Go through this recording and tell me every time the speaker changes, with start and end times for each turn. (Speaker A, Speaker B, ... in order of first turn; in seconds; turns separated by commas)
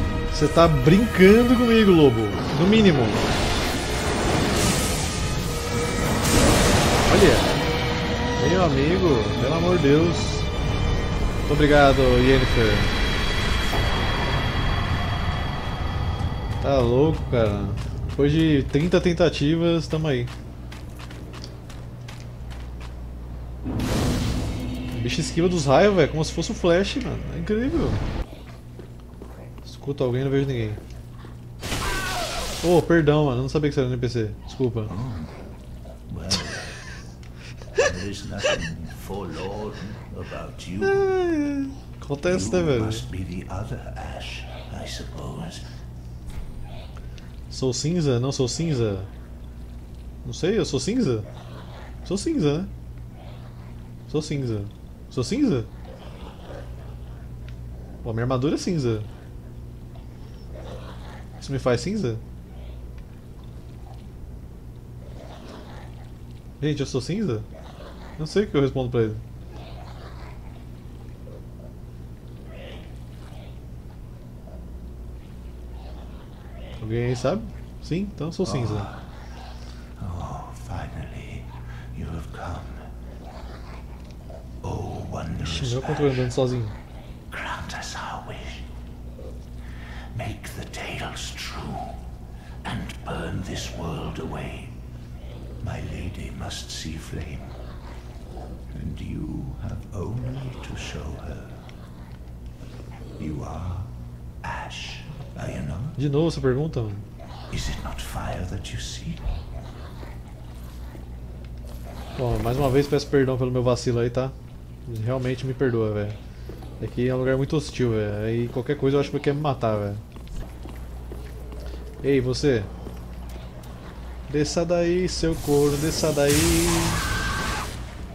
Speaker A: 0.3-3.3, Speaker A: 7.1-7.5, Speaker A: 8.4-10.5, Speaker A: 11.4-12.9, Speaker A: 16.6-20.3, Speaker A: 24.9-28.0, Speaker A: 29.6-30.8, Speaker A: 32.6-34.9, Speaker B: 34.9-35.3, Speaker B: 36.1-36.8, Speaker B: 37.8-41.1, Speaker A: 40.8-43.0, Speaker B: 42.2-45.7, Speaker A: 47.5-49.1, Speaker A: 50.2-51.3, Speaker A: 52.0-52.7, Speaker A: 54.1-55.7, Speaker A: 58.0-59.1, Speaker A: 61.4-62.2, Speaker A: 66.6-67.5, Speaker A: 68.2-69.2, Speaker A: 76.8-78.9, Speaker B: 78.4-79.1, Speaker B: 80.0-82.9, Speaker B: 84.6-86.3, Speaker A: 85.4-86.8, Speaker B: 87.3-88.7, Speaker B: 90.1-92.0, Speaker B: 92.6-94.8, Speaker B: 95.6-97.6, Speaker B: 98.7-101.7, Speaker B: 103.2-106.0, Speaker A: 106.0-107.1, Speaker B: 107.5-109.3, Speaker A: 112.2-114.3, Speaker A: 114.8-116.2, Speaker A: 116.8-120.0, Speaker A: 122.0-122.7, Speaker A: 124.3-127.0